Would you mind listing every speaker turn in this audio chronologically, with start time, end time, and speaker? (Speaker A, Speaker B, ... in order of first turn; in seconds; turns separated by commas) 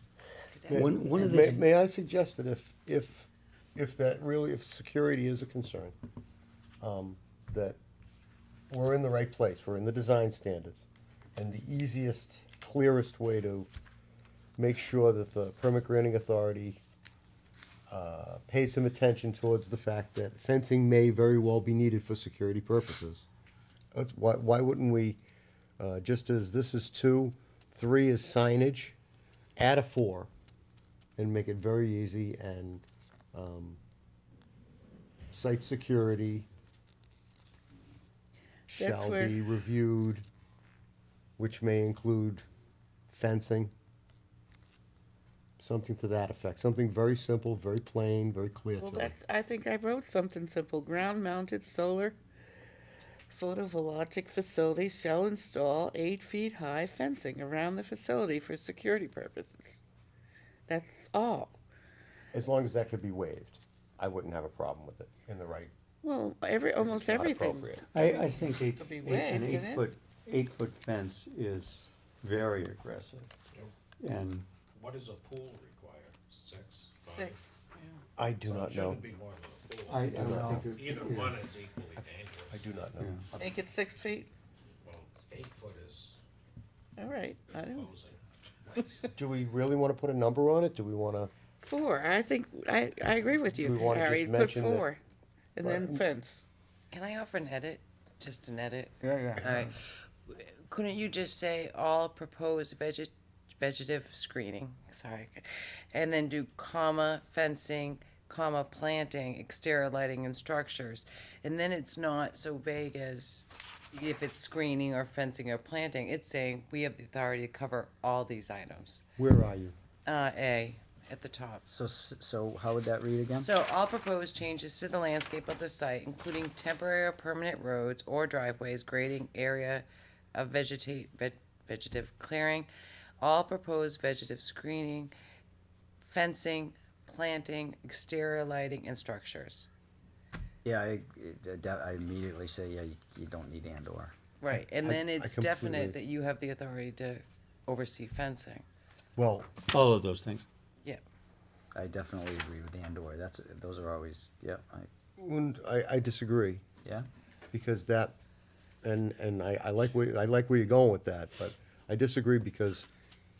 Speaker A: 0.5-1.0, Speaker B: 0.7-5.9, Speaker C: 0.7-1.6, Speaker B: 6.8-7.8, Speaker B: 8.7-13.7, Speaker B: 14.6-16.8, Speaker B: 17.9-23.2, Speaker B: 23.9-25.2, Speaker B: 25.8-28.9, Speaker B: 29.6-30.3, Speaker B: 31.2-33.8, Speaker B: 35.3-36.5, Speaker B: 38.7-40.2, Speaker D: 38.7-39.3, Speaker B: 41.4-42.4, Speaker B: 43.1-43.7, Speaker B: 45.6-49.1, Speaker D: 48.8-52.2, Speaker D: 53.3-59.8, Speaker D: 60.7-61.6, Speaker B: 62.3-65.7, Speaker D: 66.0-69.9, Speaker B: 66.8-67.9, Speaker C: 67.9-73.3, Speaker C: 74.0-74.5, Speaker E: 74.7-77.5, Speaker D: 77.1-77.4, Speaker B: 78.2-79.0, Speaker E: 78.4-82.6, Speaker C: 79.9-81.3, Speaker B: 80.1-80.7, Speaker B: 82.5-83.2, Speaker C: 83.0-83.5, Speaker D: 83.4-84.3, Speaker E: 84.8-86.2, Speaker D: 87.0-87.9, Speaker E: 87.5-89.1, Speaker B: 89.1-91.3, Speaker D: 91.6-95.0, Speaker B: 93.5-94.9, Speaker D: 95.5-96.4, Speaker B: 95.6-96.0, Speaker A: 96.9-119.0, Speaker B: 119.2-119.7, Speaker A: 120.0-121.6, Speaker F: 121.7-123.5, Speaker A: 123.4-132.7, Speaker A: 133.2-135.1, Speaker A: 136.0-139.7, Speaker F: 140.6-144.1, Speaker A: 144.4-148.6, Speaker B: 144.5-145.9, Speaker B: 149.2-149.5, Speaker C: 149.7-150.4, Speaker F: 151.7-154.9, Speaker B: 155.2-156.6, Speaker B: 157.5-158.2, Speaker B: 158.8-162.9